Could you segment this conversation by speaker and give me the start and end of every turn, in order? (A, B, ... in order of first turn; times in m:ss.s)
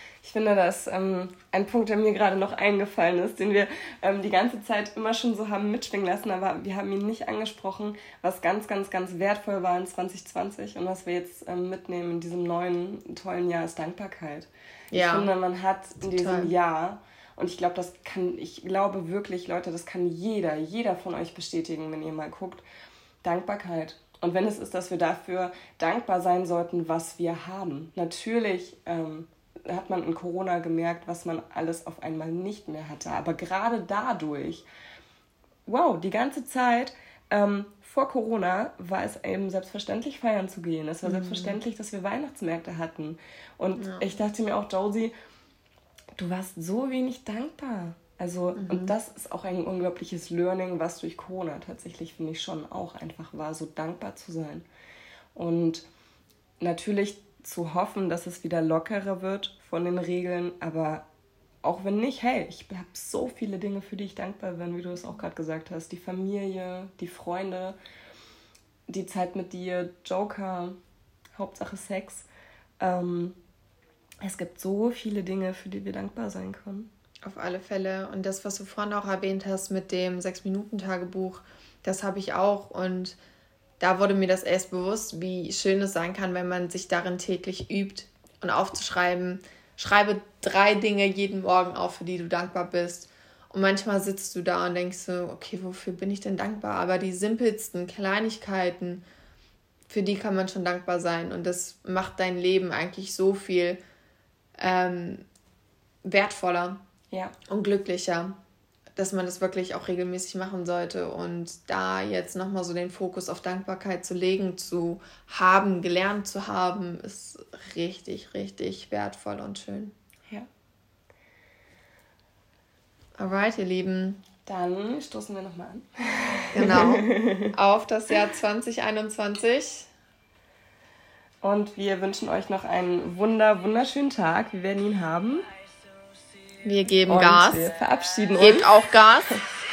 0:00.2-0:22.6 A
0:14.9-0:15.3 B
0:16.0-0:16.5 B
0:23.2-0:34.6 A
0:35.7-0:45.1 A
0:41.0-0:41.6 B
0:43.8-0:44.1 B
0:46.2-0:54.7 A
0:48.6-0:48.9 B
0:55.4-0:55.9 A
0:56.6-1:01.1 A
1:01.6-1:07.8 A
1:08.9-1:10.8 A
1:11.4-1:12.3 A
1:12.8-1:13.4 A
1:14.2-1:16.9 A
1:17.2-1:23.2 B
1:23.8-1:39.0 B
1:39.9-1:43.8 B
1:44.6-1:45.2 B
1:46.0-1:46.8 B
1:47.5-1:48.4 B
1:49.0-1:59.9 B
2:03.2-2:04.2 B
2:04.5-2:07.5 A
2:06.5-2:09.9 B
2:11.4-2:15.4 A
2:16.6-2:17.7 B
2:17.1-2:18.7 A
2:18.4-2:19.4 B